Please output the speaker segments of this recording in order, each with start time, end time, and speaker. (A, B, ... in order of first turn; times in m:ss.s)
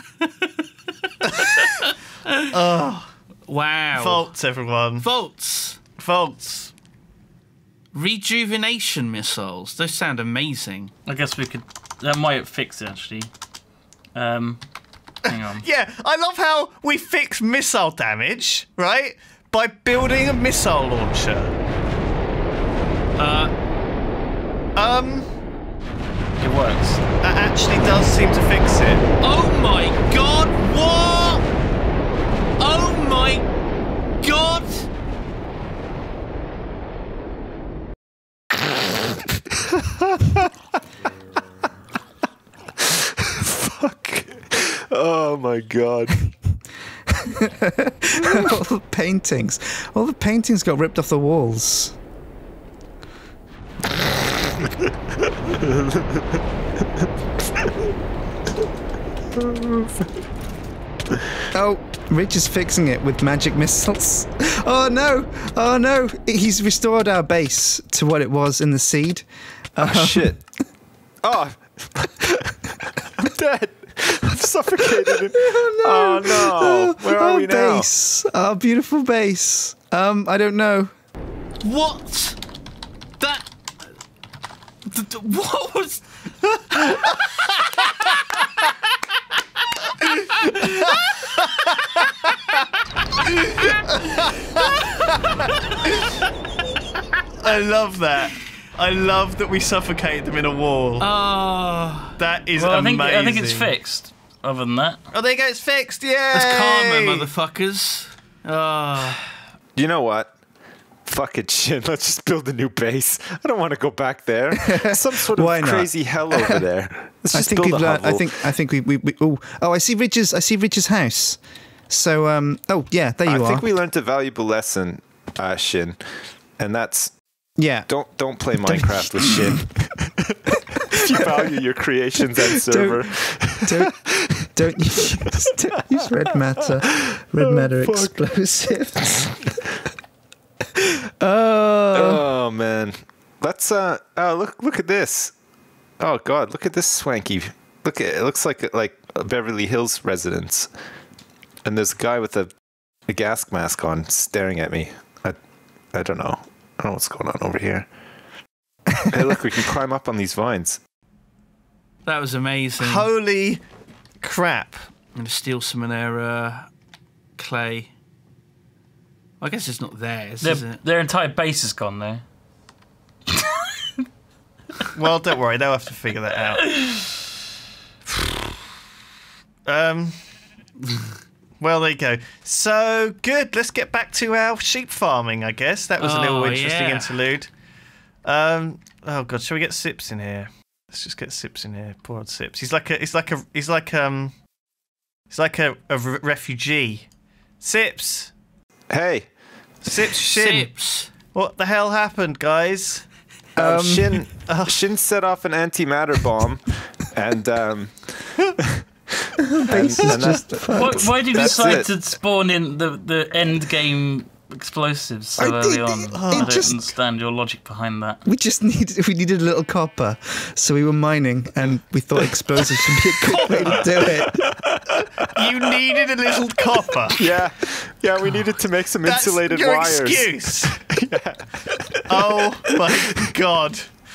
0:00.2-0:02.5 A
0:01.2-0:01.6 B
0:02.5-0:03.1 B
0:03.5-0:04.3 A
0:04.0-0:05.1 B
0:05.0-0:05.8 A
0:06.0-0:06.7 B
0:07.9-0:10.9 A
0:11.0-0:13.3 C
0:14.1-0:14.6 C
0:15.2-0:15.6 C
0:15.3-0:21.5 B
0:23.2-0:23.5 A
0:24.8-0:25.3 B
0:26.4-0:27.0 C
0:27.2-0:29.1 B
0:29.2-0:31.5 A
0:32.6-0:33.5 A
0:34.2-0:34.9 A
0:40.1-0:40.4 D
0:42.8-0:46.3 D
0:47.1-0:52.0 E
0:48.2-0:48.6 D
0:55.5-0:56.2 D
0:59.3-1:00.0 D
1:01.5-1:10.4 E
1:09.8-1:10.4 D
1:11.2-1:17.9 D
1:14.9-1:20.9 E
1:21.6-1:22.4 A
1:23.2-1:23.5 A
1:24.8-1:26.1 A
1:30.4-1:30.9 A
1:30.5-1:31.9 B
1:33.5-1:35.3 B
1:37.4-1:41.1 B
1:41.0-1:42.2 A
1:42.2-1:43.7 B
1:42.6-1:45.0 C
1:45.1-1:47.3 B
1:46.3-1:49.2 A
1:49.7-1:50.3 D
1:51.0-1:58.3 D
1:54.5-1:56.6 E
1:57.3-2:03.6 E
2:03.2-2:07.2 D
2:07.6-2:07.9 E
2:07.9-2:15.5 D
2:08.5-2:09.6 E
2:12.2-2:19.5 E
2:16.9-2:18.1 D
2:20.7-2:22.2 E
2:21.9-2:25.3 D
2:26.0-2:30.7 D
2:31.6-2:32.5 D
2:33.1-2:35.4 D
2:35.9-2:37.9 D
2:39.1-2:40.8 D
2:42.0-2:43.1 A
2:42.8-2:43.6 B
2:44.2-2:44.9 B
2:45.1-2:46.7 A
2:47.4-2:47.9 A
2:49.4-2:50.8 A
2:50.4-2:52.2 C
2:53.3-2:53.8 C
2:54.9-2:56.7 B
2:56.6-2:57.1 C
2:59.6-3:00.2 B
3:00.9-3:01.2 A
3:01.6-3:07.5 B
3:06.0-3:07.2 A
3:08.2-3:14.4 B
3:15.3-3:17.1 B
3:17.6-3:18.3 B
3:18.9-3:19.4 D
3:19.8-3:23.1 B
3:20.2-3:21.1 A
3:23.6-3:24.3 E
3:23.6-3:28.8 D
3:24.4-3:24.8 B
3:29.5-3:31.8 E
3:29.7-3:31.9 D
3:30.8-3:38.2 C
3:35.4-3:36.8 E
3:36.1-3:36.7 B
3:38.2-3:44.4 E
3:43.6-3:45.2 D
3:45.3-3:47.4 B
3:47.1-3:53.2 D
3:49.0-3:50.7 B
3:52.1-3:53.9 B